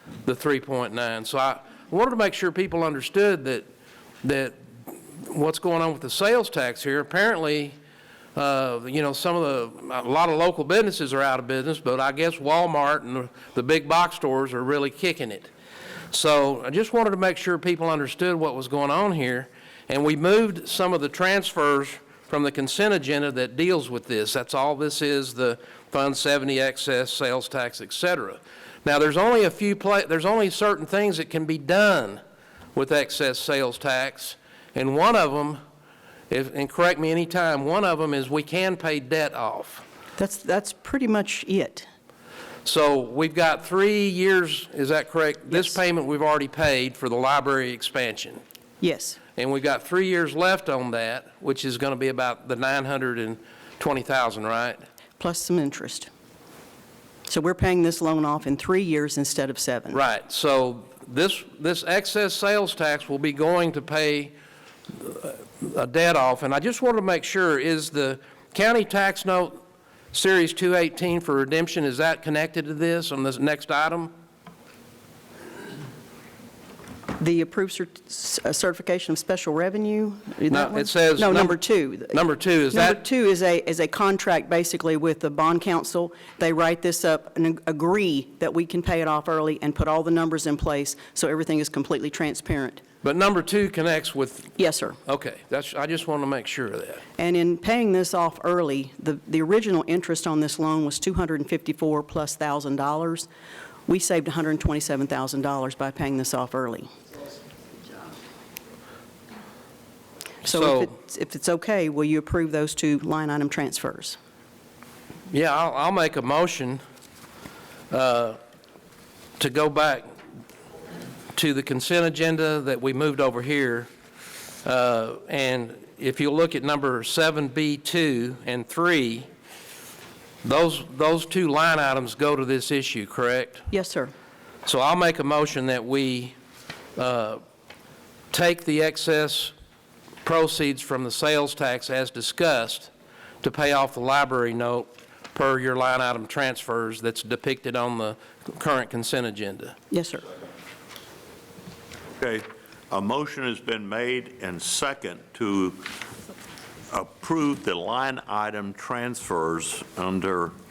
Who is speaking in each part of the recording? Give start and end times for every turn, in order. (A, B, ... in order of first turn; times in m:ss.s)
0:00.2-0:03.7 A
0:04.2-0:04.6 A
0:05.2-0:07.8 A
0:08.3-0:15.5 A
0:16.1-0:32.2 A
0:32.7-0:35.6 A
0:36.3-0:39.8 A
0:40.2-0:41.9 B
0:42.6-0:48.4 A
0:45.5-0:45.8 B
0:48.8-0:49.2 B
0:49.4-0:54.8 A
0:55.2-0:56.1 B
0:57.3-1:00.0 B
0:59.9-1:04.3 A
1:04.9-1:09.6 A
1:10.1-1:14.1 A
1:17.2-1:32.8 B
1:20.5-1:23.0 A
1:33.0-1:37.0 A
1:34.6-1:35.0 B
1:37.2-1:43.3 B
1:43.9-1:46.9 B
1:50.4-1:54.2 B
1:50.4-1:50.9 A
1:55.3-1:56.8 A
1:57.9-1:58.4 A
1:59.4-2:00.1 A
2:01.3-2:03.9 A
2:04.6-2:09.3 A
2:10.4-2:13.6 A
2:13.7-2:14.1 B
2:14.6-2:16.3 A
2:17.0-2:17.4 A
2:18.3-2:19.5 A
2:20.2-2:22.9 A
2:23.4-2:29.8 A
2:29.9-2:30.2 B
2:32.2-2:36.0 C
2:36.9-2:40.5 C